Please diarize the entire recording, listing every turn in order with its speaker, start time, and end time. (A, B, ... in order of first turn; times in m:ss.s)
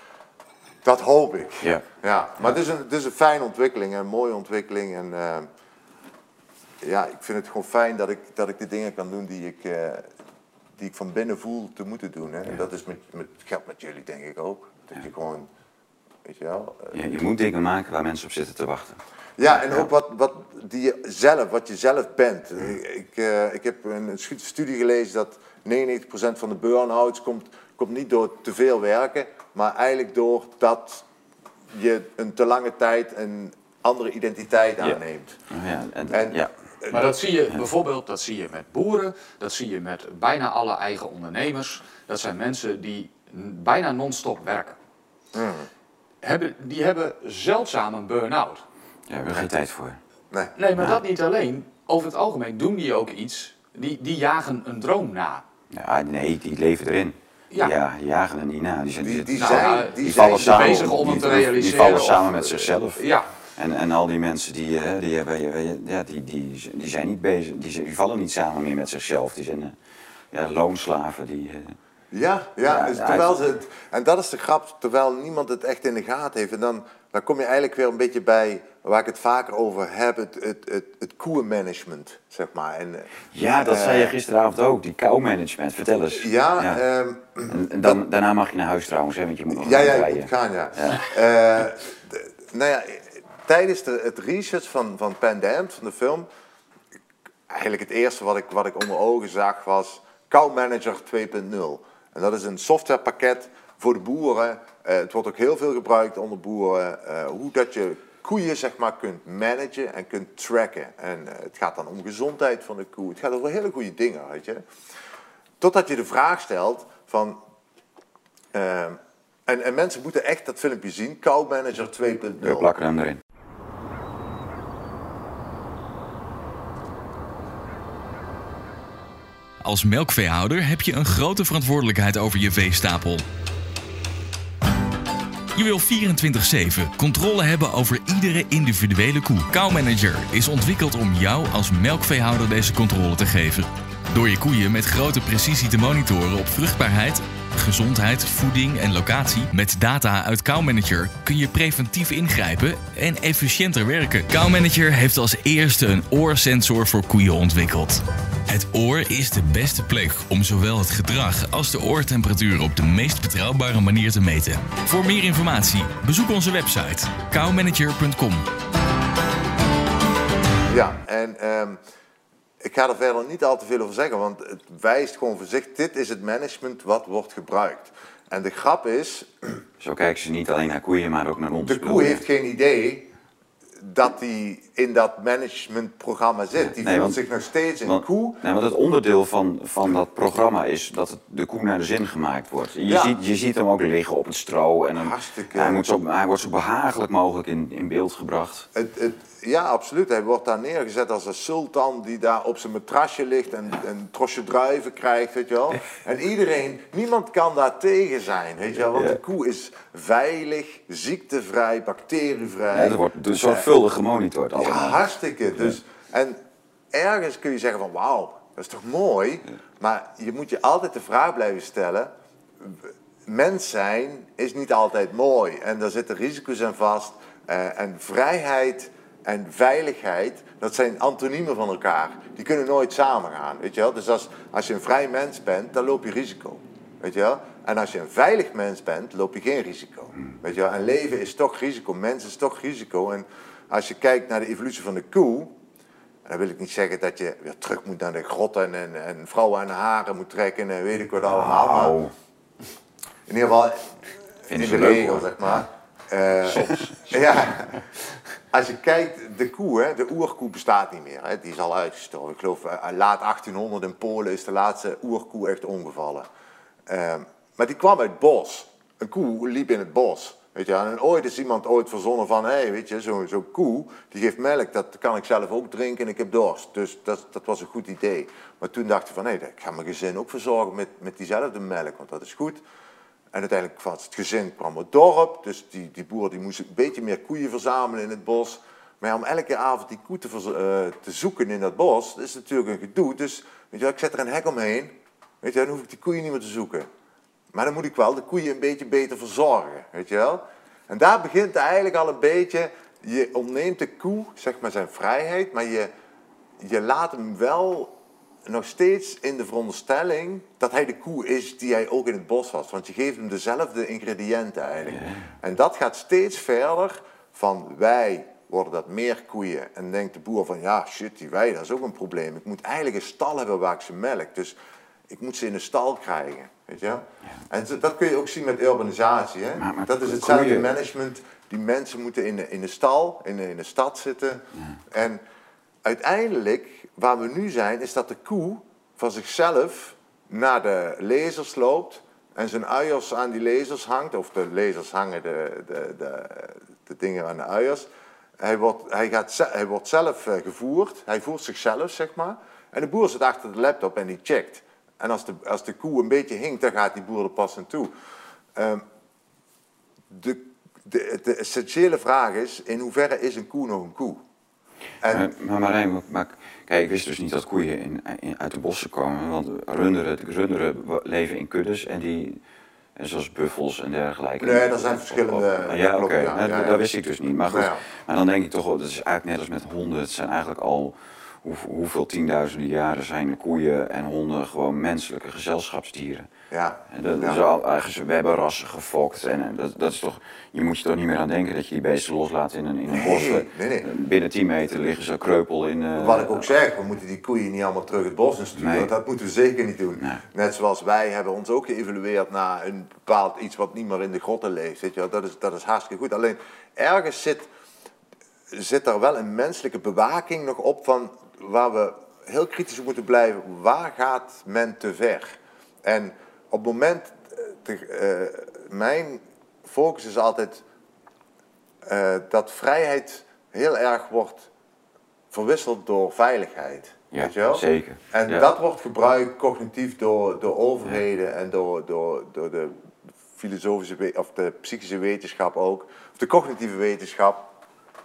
0:00.8-0:05.5 A
0:06.8-0:10.1 A
0:10.8-0:15.5 A
0:16.2-0:17.0 A
0:16.9-0:19.0 B
0:19.4-0:31.0 A
0:19.6-0:19.9 B
0:31.7-0:35.4 A
0:34.8-0:36.5 B
0:36.1-0:37.0 A
0:36.9-0:44.8 C
0:45.3-0:45.7 A
0:46.2-0:48.6 C
0:49.1-0:50.0 B
0:50.6-0:55.4 C
0:55.7-1:03.0 B
0:59.0-1:01.3 A
0:59.4-1:03.3 C
1:03.6-1:09.8 B
1:10.3-1:11.8 B
1:12.1-1:24.1 A
1:12.7-1:13.4 B
1:23.3-1:26.8 B
1:26.1-1:28.0 A
1:27.5-1:31.0 B
1:29.5-1:36.3 A
1:37.5-1:54.6 A
1:55.6-1:57.4 A
1:58.5-2:02.7 A
2:02.4-2:03.2 B
2:09.6-2:13.2 D
2:15.6-2:48.4 D
2:50.7-2:51.8 A
2:52.6-2:59.6 A
2:59.8-3:02.2 B
3:01.6-3:03.1 A
3:03.8-3:08.4 A
3:06.6-3:07.2 B
3:07.8-3:18.7 B
3:12.9-3:13.2 A
3:15.0-3:15.8 A
3:18.7-3:33.7 A
3:28.9-3:29.2 B
3:32.7-3:35.0 B
3:34.6-3:36.4 A
3:36.9-4:05.6 A
4:06.2-4:12.0 A
4:11.2-4:12.1 B
4:13.3-4:17.8 A
4:14.5-4:15.6 B
4:16.5-4:17.0 C
4:18.5-4:26.3 A
4:26.9-4:42.6 A
4:43.3-4:56.9 A
4:57.5-5:05.9 A
5:06.6-5:24.6 A
5:14.9-5:15.3 B
5:25.1-5:35.2 A
5:29.6-5:30.7 B
5:35.8-5:57.9 A
5:58.6-5:58.8 A
6:00.1-6:04.2 A
6:05.0-6:05.3 A
6:05.1-6:12.4 B
6:13.0-6:26.3 B
6:14.4-6:16.8 A
6:17.4-6:17.8 A
6:26.5-6:27.4 A
6:26.9-6:36.5 B
6:32.9-6:33.9 A
6:36.0-6:47.5 A
6:38.6-6:38.9 B
6:48.5-7:00.6 A
7:01.8-7:04.5 A
7:05.3-7:12.8 A
7:07.1-7:08.5 B
7:13.3-7:17.5 A